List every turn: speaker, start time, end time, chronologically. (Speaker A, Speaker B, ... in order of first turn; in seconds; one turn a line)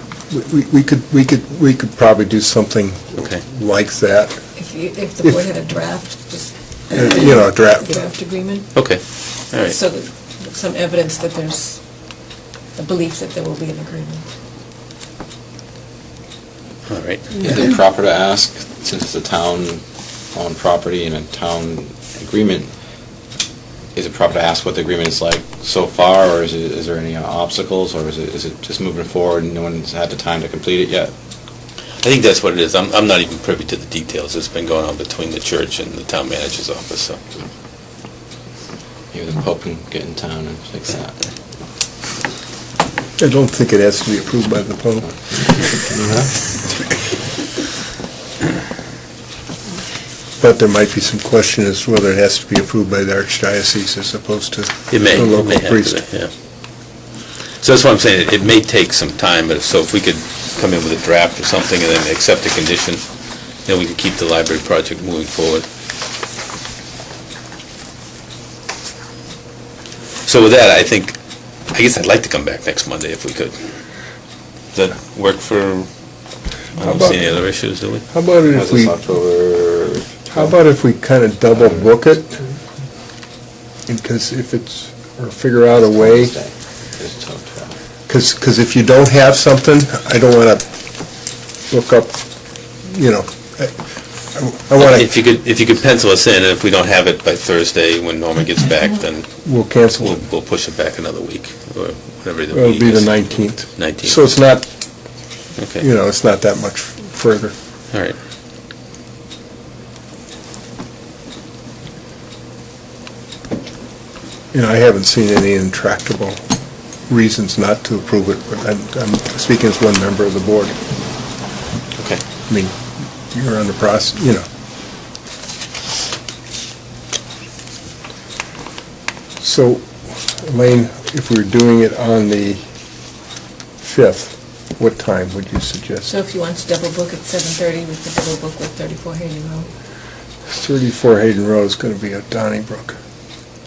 Speaker A: 0.3-4.3
Speaker B: 4.5-8.7
Speaker A: 6.9-8.0
Speaker C: 8.7-9.8
Speaker B: 9.6-11.8
Speaker B: 12.7-14.3
Speaker C: 16.9-17.6
Speaker D: 17.4-19.8
Speaker D: 20.3-22.7
Speaker D: 23.9-31.1
Speaker C: 32.0-37.2
Speaker D: 39.1-41.2
Speaker A: 43.2-45.9
Speaker D: 46.0-46.3
Speaker A: 50.4-56.0
Speaker C: 54.9-56.3
Speaker C: 57.6-63.0
Speaker C: 63.6-65.7
Speaker C: 70.2-71.2
Speaker C: 71.7-73.5
Speaker C: 74.7-75.9
Speaker A: 76.8-77.3
Speaker C: 76.8-78.0
Speaker A: 78.1-78.9
Speaker D: 78.5-80.5
Speaker A: 80.3-82.3
Speaker A: 83.9-86.3
Speaker D: 85.9-87.8
Speaker A: 88.1-90.6
Speaker A: 91.7-92.2
Speaker A: 92.8-93.7
Speaker A: 94.3-95.1
Speaker C: 94.8-99.3
Speaker A: 99.4-100.2
Speaker C: 100.0-104.2
Speaker A: 102.5-104.7
Speaker C: 105.6-105.8
Speaker A: 105.8-107.5
Speaker C: 107.9-108.2
Speaker A: 114.5-116.4
Speaker A: 117.1-120.7
Speaker A: 122.5-122.8
Speaker A: 123.3-124.4
Speaker A: 129.4-132.6
Speaker A: 133.8-136.1
Speaker B: 136.1-139.7
Speaker A: 140.5-142.9